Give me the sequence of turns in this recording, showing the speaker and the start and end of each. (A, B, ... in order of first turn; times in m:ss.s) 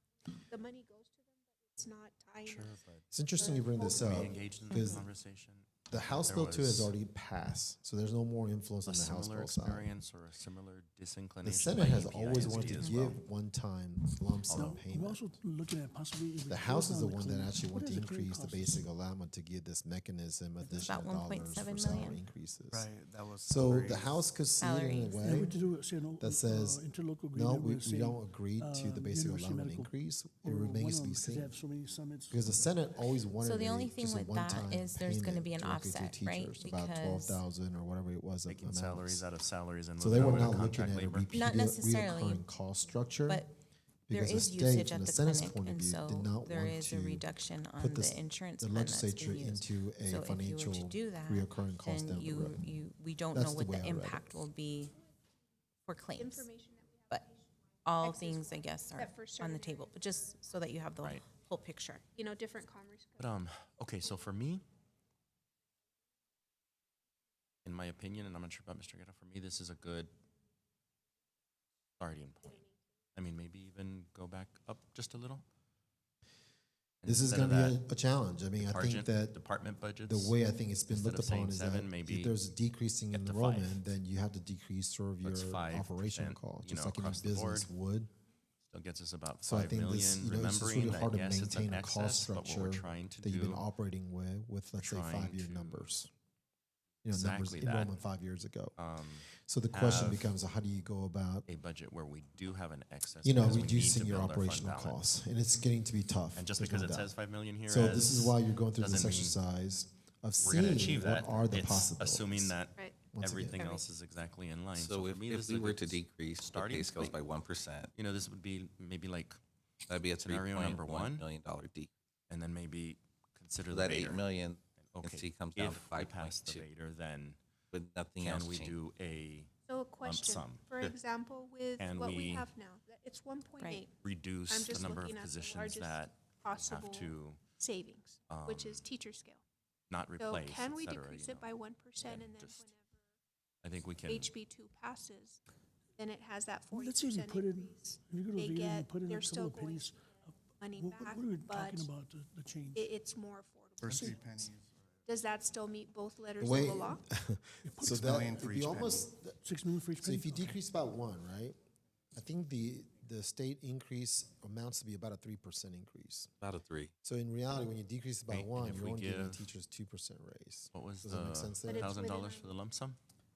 0:00.5-0:02.7 A
0:02.4-0:03.0 B
0:03.1-0:05.1 C
0:03.4-0:04.4 A
0:03.9-0:06.9 B
0:05.9-0:09.9 C
0:08.9-0:13.2 B
0:11.4-0:15.2 C
0:12.7-0:13.0 D
0:14.5-0:14.8 B
0:14.5-0:18.9 E
0:16.5-0:25.6 C
0:20.8-0:22.2 D
0:22.7-0:24.2 F
0:24.6-0:25.6 D
0:25.2-0:29.9 E
0:26.2-0:31.6 C
0:30.4-0:32.5 E
0:32.3-0:39.3 C
0:33.4-0:37.4 D
0:38.5-0:41.3 B
0:40.0-0:43.5 C
0:41.3-0:42.4 D
0:43.3-0:43.5 D
0:44.1-0:47.3 C
0:44.1-0:54.9 D
0:47.8-0:52.6 C
0:53.3-0:54.3 C
0:55.9-0:56.5 D
0:56.2-0:57.2 A
0:57.8-1:02.0 D
0:58.0-0:59.9 A
1:02.2-1:03.3 A
1:03.2-1:04.6 B
1:07.6-1:10.1 B
1:12.0-1:15.4 B
1:17.0-1:17.8 B
1:17.0-1:19.4 C
1:18.6-1:20.4 B
1:20.1-1:28.1 C
1:20.9-1:22.4 B
1:23.1-1:23.9 B
1:25.2-1:27.7 B
1:28.6-1:33.7 B
1:29.4-1:36.1 C
1:34.8-1:36.0 B
1:37.0-1:38.8 C
1:37.1-1:38.0 B
1:38.8-1:40.4 B
1:39.4-1:41.5 C
1:41.5-1:45.0 B
1:43.2-1:47.1 C
1:46.4-1:49.4 B
1:47.7-1:52.6 C
1:50.4-1:57.2 B
1:53.1-1:53.6 C
1:54.7-1:57.9 G
1:57.9-1:59.4 B
1:59.9-2:01.9 G
2:00.2-2:01.3 B
2:02.3-2:04.3 B
2:03.7-2:06.7 G
2:04.9-2:07.4 B
2:07.7-2:08.8 G
2:08.2-2:10.9 B
2:09.7-2:14.0 A
2:11.8-2:12.5 B
2:13.6-2:13.8 D
2:14.0-2:17.4 B
2:14.5-2:19.4 A
2:18.3-2:18.9 B
2:19.9-2:22.7 B
2:20.2-2:22.8 A
2:23.6-2:24.3 B
2:24.1-2:25.4 A
2:26.0-2:30.0 A
2:26.7-2:32.9 E
2:30.6-2:31.9 A
2:32.7-2:34.0 A
2:33.8-2:34.7 F
2:33.8-2:34.3 E
2:35.1-2:37.0 A
2:36.4-2:39.4 C
2:37.6-2:38.7 E
2:38.0-2:39.1 F
2:39.4-2:40.6 E
2:39.9-2:41.6 C
2:42.2-2:46.3 C
2:46.4-2:46.9 G
2:47.0-2:52.0 C
2:48.3-2:49.5 B
2:50.7-2:53.0 B
2:51.7-2:52.5 A